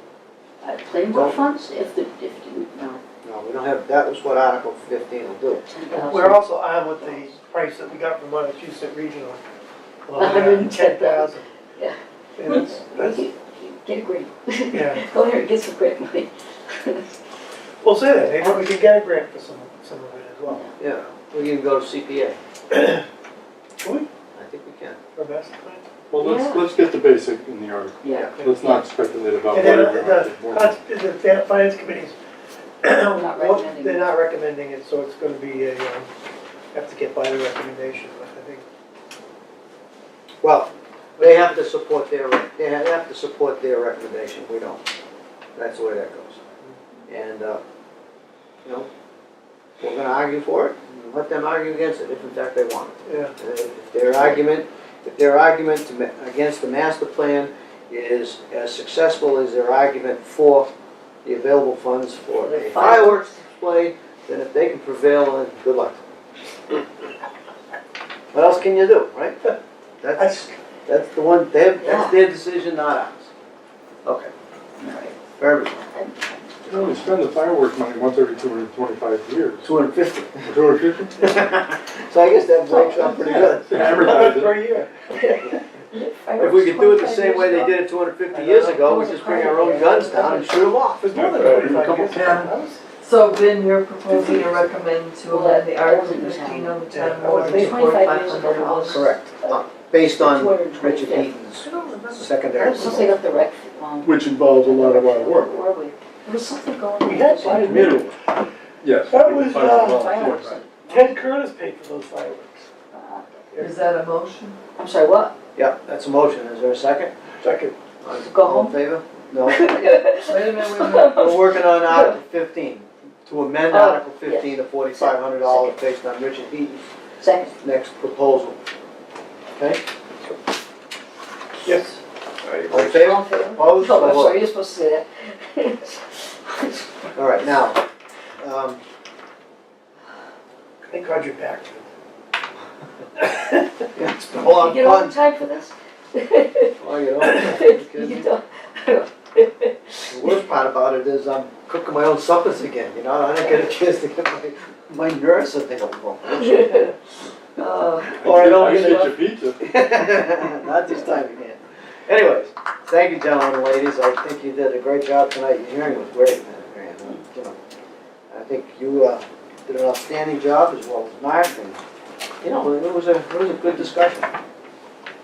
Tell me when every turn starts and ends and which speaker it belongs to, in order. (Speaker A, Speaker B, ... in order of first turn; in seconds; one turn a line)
Speaker A: 0.6-3.0
Speaker B: 1.1-1.5
Speaker B: 3.2-5.7
Speaker A: 5.7-6.4
Speaker C: 6.0-9.4
Speaker C: 10.1-11.4
Speaker A: 10.2-17.1
Speaker C: 12.4-13.3
Speaker C: 14.7-15.0
Speaker C: 17.8-20.6
Speaker A: 20.5-20.7
Speaker B: 20.8-22.4
Speaker C: 22.7-23.0
Speaker C: 23.8-24.1
Speaker B: 24.3-25.0
Speaker C: 25.1-25.9
Speaker D: 26.1-30.8
Speaker A: 26.2-26.6
Speaker A: 28.0-28.8
Speaker C: 29.5-32.2
Speaker C: 32.8-36.1
Speaker A: 33.1-34.0
Speaker C: 36.7-38.6
Speaker B: 40.4-44.8
Speaker C: 41.2-41.6
Speaker B: 45.5-46.4
Speaker B: 47.1-47.6
Speaker B: 49.8-60.7
Speaker C: 53.0-53.3
Speaker B: 61.2-66.0
Speaker A: 62.4-63.3
Speaker B: 68.3-69.4
Speaker B: 70.0-73.3
Speaker C: 70.2-70.5
Speaker A: 71.8-72.2
Speaker B: 74.0-74.3
Speaker A: 74.8-75.2
Speaker B: 75.4-75.8
Speaker A: 75.8-77.1
Speaker D: 76.7-79.7
Speaker B: 79.6-80.5
Speaker D: 80.4-81.4
Speaker B: 81.2-83.8
Speaker C: 82.7-85.0
Speaker D: 83.2-84.7
Speaker A: 85.1-87.8
Speaker B: 86.4-91.2
Speaker C: 88.3-88.8
Speaker A: 88.7-90.6
Speaker C: 91.0-92.8
Speaker D: 91.1-92.4
Speaker E: 92.1-99.1
Speaker C: 94.1-94.7
Speaker A: 95.3-96.8
Speaker C: 96.9-97.9
Speaker A: 97.3-101.3
Speaker B: 98.9-101.7
Speaker C: 101.6-103.1
Speaker B: 102.2-103.1
Speaker A: 102.7-108.0
Speaker C: 104.0-105.5
Speaker C: 107.0-108.3
Speaker B: 107.4-108.1
Speaker D: 108.8-110.6
Speaker C: 109.1-110.2
Speaker A: 109.7-111.2
Speaker C: 110.9-112.7
Speaker A: 112.9-113.5
Speaker E: 113.6-114.6
Speaker A: 114.8-115.3
Speaker B: 115.5-117.1
Speaker C: 117.4-117.7
Speaker B: 118.0-119.7
Speaker A: 118.1-118.8
Speaker A: 119.4-122.2
Speaker E: 120.2-121.1
Speaker B: 121.1-126.9
Speaker A: 123.7-125.8
Speaker A: 127.2-127.5
Speaker B: 127.5-128.6
Speaker B: 129.6-130.3
Speaker C: 131.7-132.0
Speaker B: 132.6-134.4
Speaker A: 132.7-137.2
Speaker B: 137.1-137.8
Speaker B: 138.4-138.8
Speaker C: 140.9-141.9
Speaker C: 143.2-143.6
Speaker B: 143.9-145.2
Speaker A: 144.3-150.4
Speaker B: 146.8-148.3
Speaker B: 150.1-156.9
Speaker A: 156.4-156.9
Speaker A: 157.6-159.1
Speaker B: 158.2-167.6
Speaker D: 158.2-159.7
Speaker B: 168.3-171.8
Speaker B: 172.4-174.3